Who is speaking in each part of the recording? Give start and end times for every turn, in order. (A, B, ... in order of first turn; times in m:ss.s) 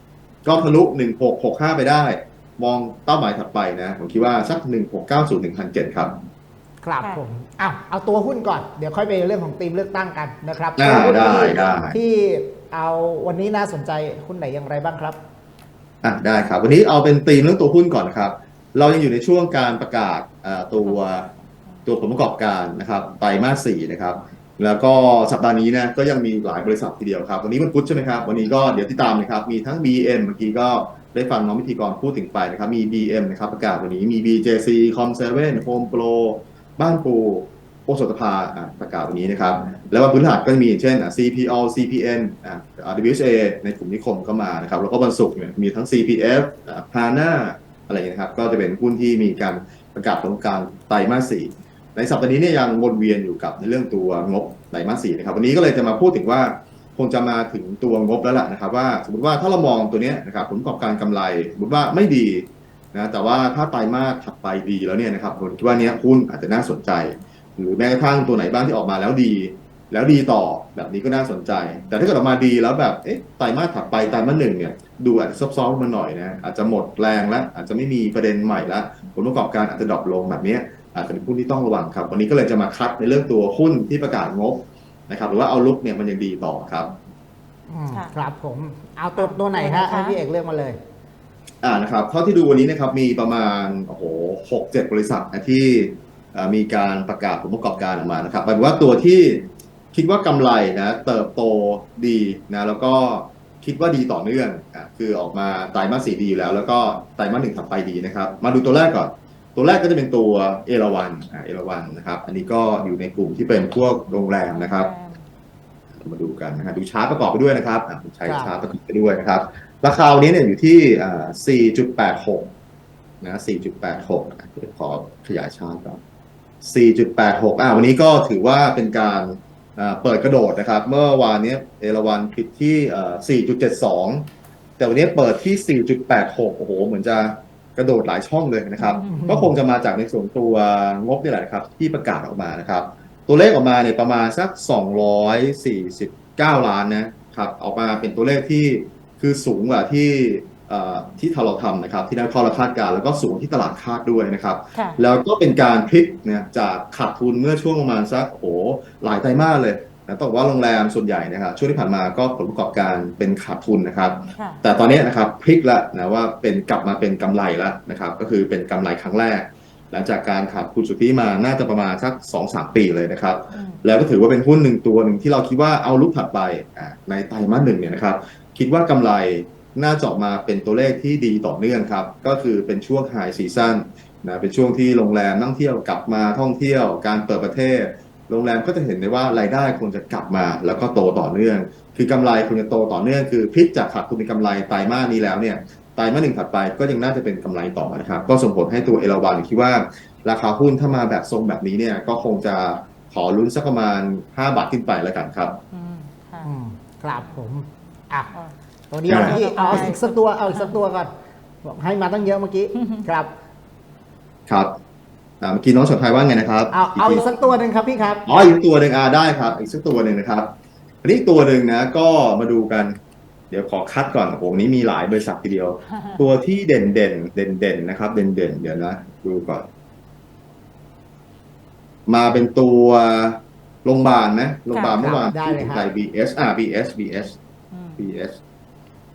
0:00.4-0:06.1 A
0:06.8-0:15.2 B
0:10.8-0:12.0 A
0:16.0-0:21.3 A
0:20.8-0:21.1 C
0:21.8-1:26.9 A
1:27.7-1:30.8 B
1:29.2-1:30.2 C
1:31.6-1:54.9 A
1:54.5-1:55.2 C
1:56.0-2:02.5 A
1:58.2-1:58.5 B
2:03.2-2:06.0 A
2:06.6-2:14.3 A
2:14.8-3:25.6 A
2:18.8-2:19.1 C
2:19.0-2:19.5 B
2:34.7-2:35.0 C
2:44.3-2:44.6 C
2:53.5-2:53.8 C
3:25.7-3:26.5 C
3:26.4-3:28.3 B
3:28.9-3:31.1 B
3:29.0-3:30.7 C
3:29.1-3:29.9 A
3:31.6-3:33.3 B
3:32.7-3:33.0 C
3:34.5-3:34.7 A
3:35.4-3:37.2 A
3:36.7-3:38.2 B
3:38.2-3:40.5 A
3:41.0-3:42.9 A
3:43.5-3:49.7 A
3:46.0-3:46.2 C
3:52.0-3:57.4 A
3:54.7-3:55.0 C
3:55.0-3:55.9 B
3:57.7-3:58.0 C
3:58.0-3:58.4 A